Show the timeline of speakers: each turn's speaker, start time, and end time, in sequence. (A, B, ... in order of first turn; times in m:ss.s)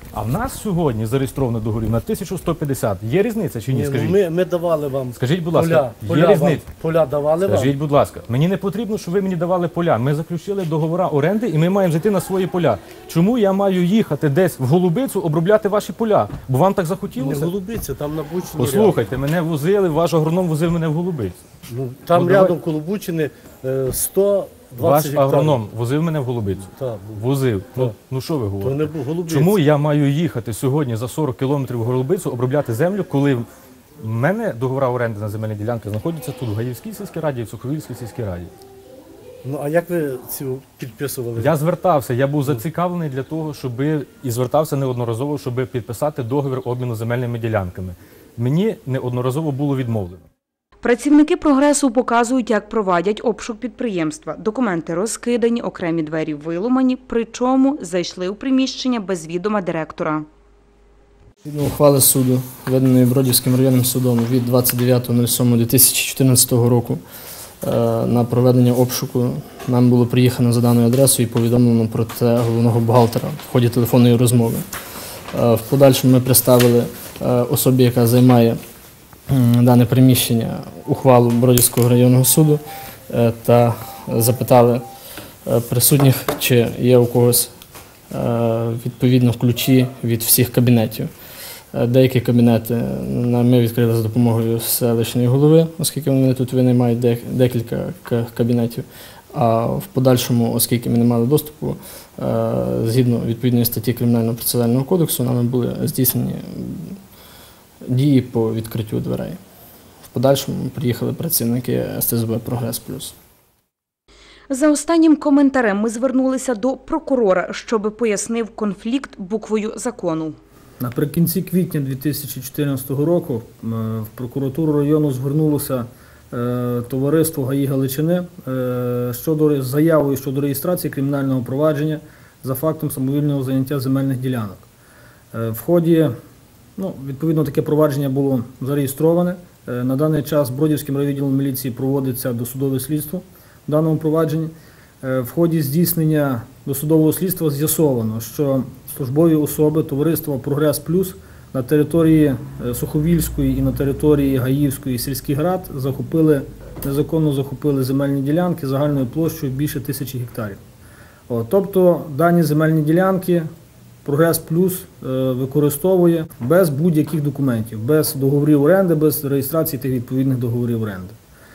0:00.1-0:04.2 A
0:03.7-0:07.8 B
0:05.1-0:06.7 A
0:07.4-0:17.5 A
0:17.2-0:19.0 B
0:18.6-0:21.4 A
0:21.7-0:25.6 B
0:22.1-0:22.6 A
0:24.8-0:33.5 A
0:26.8-0:27.2 B
0:28.6-0:29.6 B
0:34.0-0:38.5 A
0:39.4-0:41.5 B
0:41.4-0:50.3 A
0:50.9-1:00.2 C
1:01.4-1:07.0 D
1:07.6-1:14.7 D
1:15.3-1:18.6 D
1:19.3-1:24.8 D
1:25.5-1:27.5 D
1:28.1-1:31.1 D
1:31.7-1:47.0 D
1:47.9-1:49.4 D
1:50.1-1:53.2 D
1:54.5-2:00.4 C
2:00.8-2:14.6 E
2:15.3-2:16.1 E
2:16.8-2:40.6 E
2:41.3-2:43.5 E
2:44.0-2:51.2 E